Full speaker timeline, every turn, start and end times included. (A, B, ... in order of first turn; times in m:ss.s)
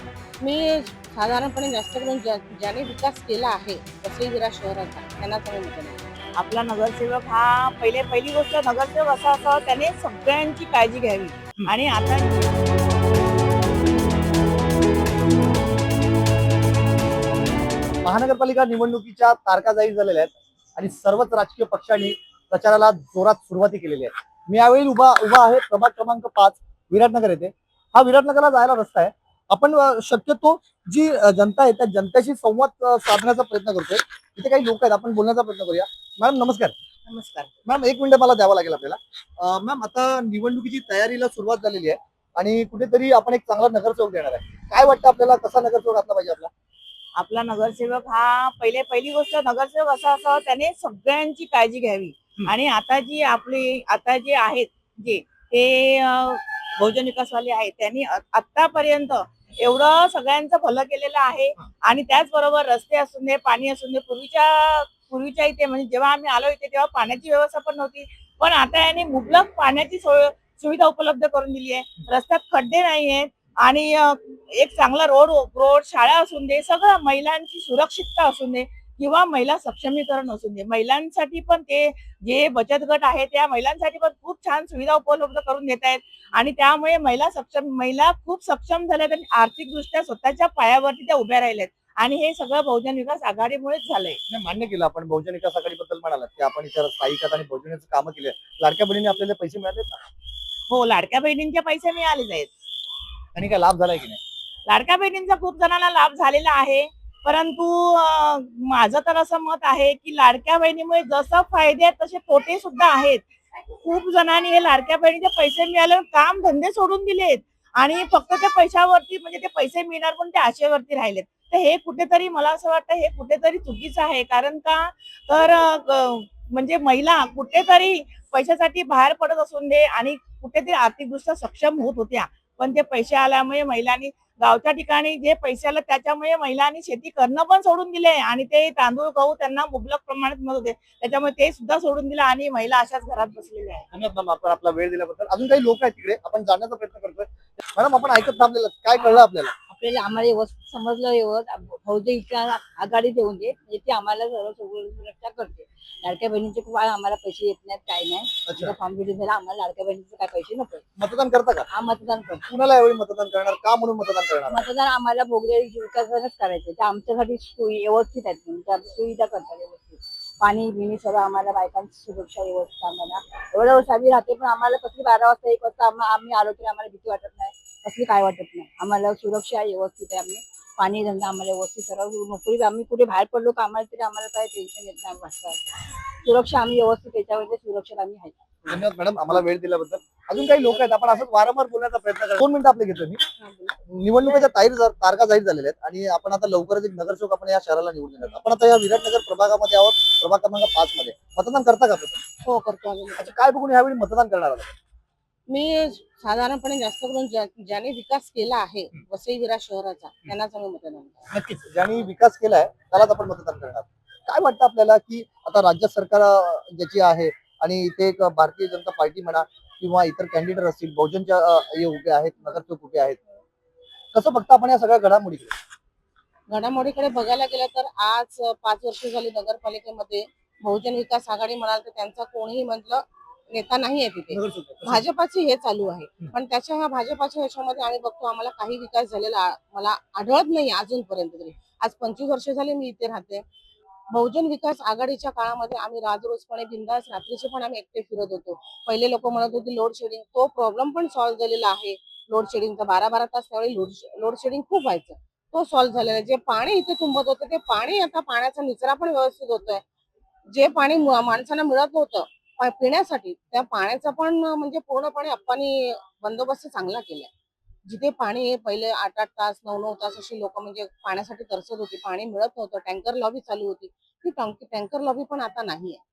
0:00.4-0:06.0 A
0:06.4-0:12.4 B
0:18.0-0:36.7 C
0:37.1-0:37.5 B
0:37.6-0:46.5 C
0:47.2-1:34.2 B
1:34.3-1:40.0 C
1:40.7-1:42.5 B
1:43.4-1:44.2 C
1:44.6-1:53.2 B
1:53.8-2:23.9 B
2:23.9-2:29.5 C
2:29.7-2:40.8 D
2:38.5-2:38.8 C
2:41.0-2:41.7 C
2:41.7-2:42.5 D
2:42.5-2:44.6 C
2:44.5-3:05.6 D
3:06.2-3:08.7 D
3:08.7-3:13.2 C
3:13.4-3:14.5 A
3:13.9-3:22.2 C
3:22.4-3:23.3 A
3:23.2-3:24.8 C
3:25.5-3:31.3 A
3:31.3-3:43.2 C
3:44.1-3:45.6 C
3:46.5-4:03.4 A
3:54.3-3:55.0 C
4:04.1-4:19.8 A
4:20.5-4:27.3 A
4:27.8-4:36.0 A